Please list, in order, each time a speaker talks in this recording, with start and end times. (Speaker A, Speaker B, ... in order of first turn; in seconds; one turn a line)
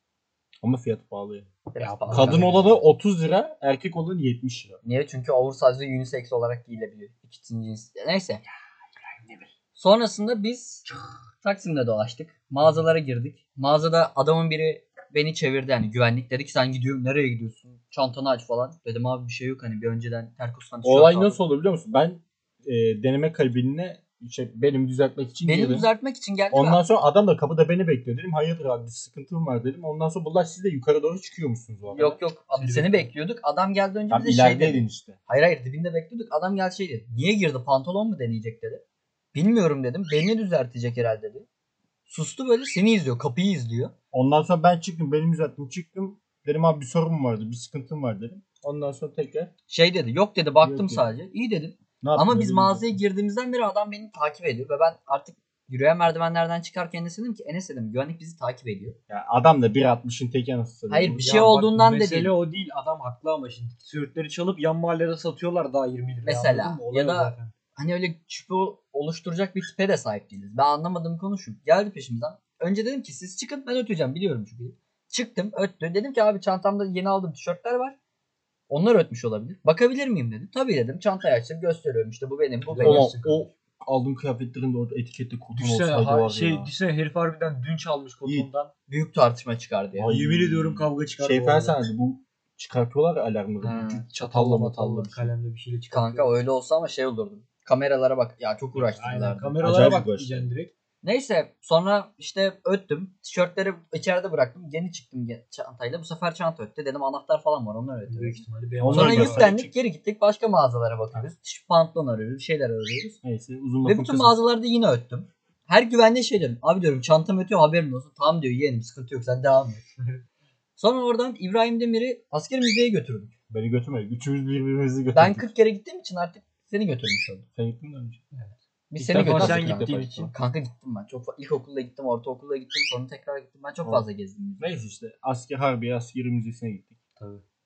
Speaker A: 0.6-1.5
Speaker B: 1.7-2.8
Speaker C: 1.8-2.6
Speaker A: 2.1-4.8
Speaker B: 4.8-8.4
Speaker C: 9.2-9.4
Speaker B: 9.8-10.8
Speaker B: 11.4-21.4
Speaker A: 20.8-25.9
Speaker B: 25.4-26.8
Speaker A: 26.5-32.2
Speaker B: 31.9-38.8
Speaker C: 32.5-33.1
Speaker A: 34.1-35.2
Speaker B: 39.3-41.5
Speaker B: 42.1-43.9
Speaker A: 44.1-49.5
Speaker B: 49.7-59.0
Speaker A: 50.6-51.1
Speaker A: 52.0-53.0
Speaker A: 59.1-61.6
Speaker B: 60.9-62.3
Speaker C: 61.2-67.5
Speaker B: 66.2-78.0
Speaker B: 78.7-83.1
Speaker C: 82.6-83.5
Speaker A: 82.8-86.7
Speaker C: 85.5-88.7
Speaker B: 88.9-90.1
Speaker A: 89.9-95.3
Speaker C: 90.1-91.8
Speaker B: 93.6-94.0
Speaker C: 94.1-96.4
Speaker B: 95.9-99.6
Speaker C: 98.7-100.7
Speaker A: 99.6-100.5
Speaker B: 101.0-113.2
Speaker C: 108.1-109.5
Speaker A: 108.8-109.7
Speaker A: 113.2-114.4
Speaker B: 113.8-119.8
Speaker B: 120.8-123.3
Speaker A: 123.5-125.5
Speaker B: 125.1-127.4
Speaker A: 127.5-128.2
Speaker B: 128.9-134.7
Speaker A: 129.0-130.3
Speaker C: 129.1-130.3
Speaker A: 134.6-137.0
Speaker C: 137.2-137.4